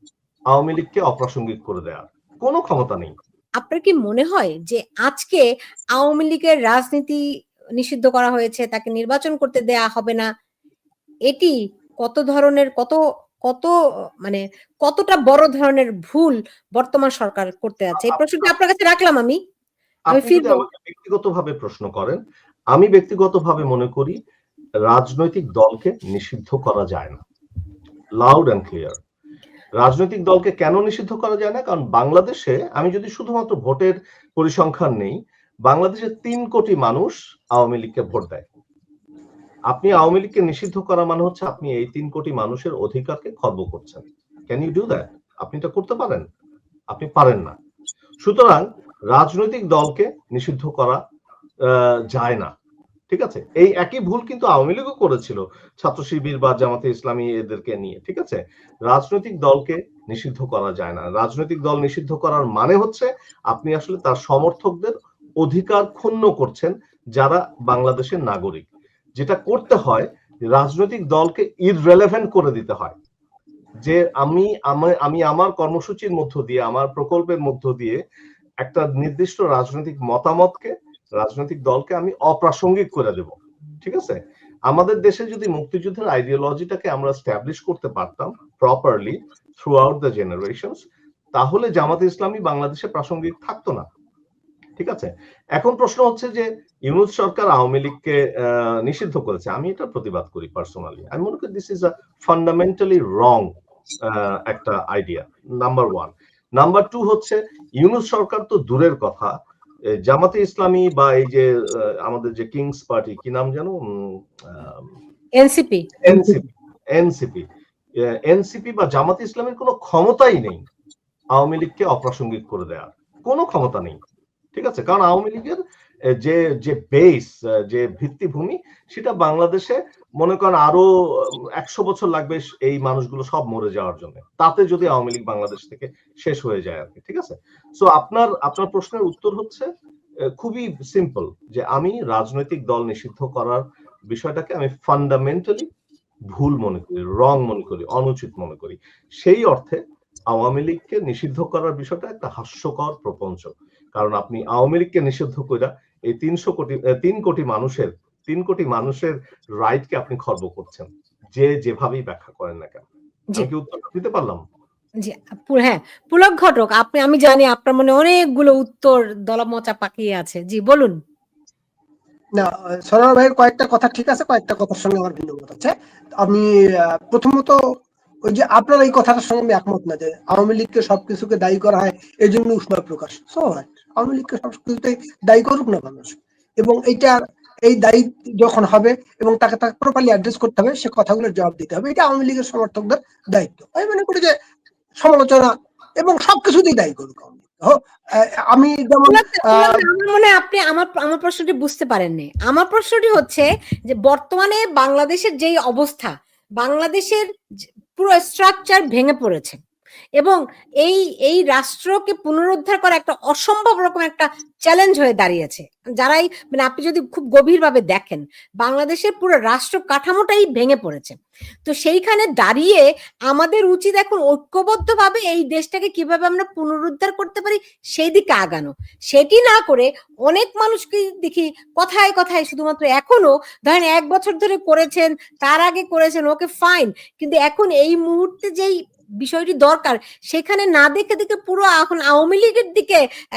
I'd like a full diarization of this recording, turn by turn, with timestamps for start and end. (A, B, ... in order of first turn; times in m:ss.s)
0:00.5-0:03.1 A
0:03.6-0:05.4 B
0:06.0-0:07.2 B
0:07.8-0:10.3 B
0:11.3-0:13.0 B
0:14.2-0:19.4 B
0:18.0-0:18.5 A
0:20.1-0:22.2 A
0:20.1-0:20.6 B
0:22.7-0:24.2 A
0:24.9-0:27.2 A
0:28.2-0:29.0 A
0:29.8-0:38.4 A
0:39.7-0:46.2 A
0:46.9-0:47.6 A
0:48.2-0:51.0 A
0:52.1-0:52.5 A
0:53.1-1:08.7 A
1:09.2-1:13.0 A
1:13.8-1:18.0 A
1:18.6-1:24.2 A
1:24.7-1:30.8 A
1:31.4-1:33.9 A
1:34.8-1:43.5 A
1:44.1-1:49.3 A
1:50.1-1:51.5 A
1:52.0-1:53.8 A
1:54.5-1:54.8 A
1:55.4-1:56.4 B
1:56.0-1:57.4 A
1:58.3-2:00.6 A
2:01.4-2:04.0 A
2:04.6-2:05.6 A
2:06.2-2:10.9 A
2:11.6-2:19.7 A
2:20.4-2:25.7 A
2:26.3-2:29.8 A
2:30.3-2:42.8 A
2:43.4-2:44.4 A
2:45.0-2:51.0 B
2:52.4-2:57.6 C
2:58.3-3:14.3 C
3:15.0-3:19.9 C
3:19.1-3:27.2 B
3:28.0-3:29.6 B
3:30.2-4:03.0 B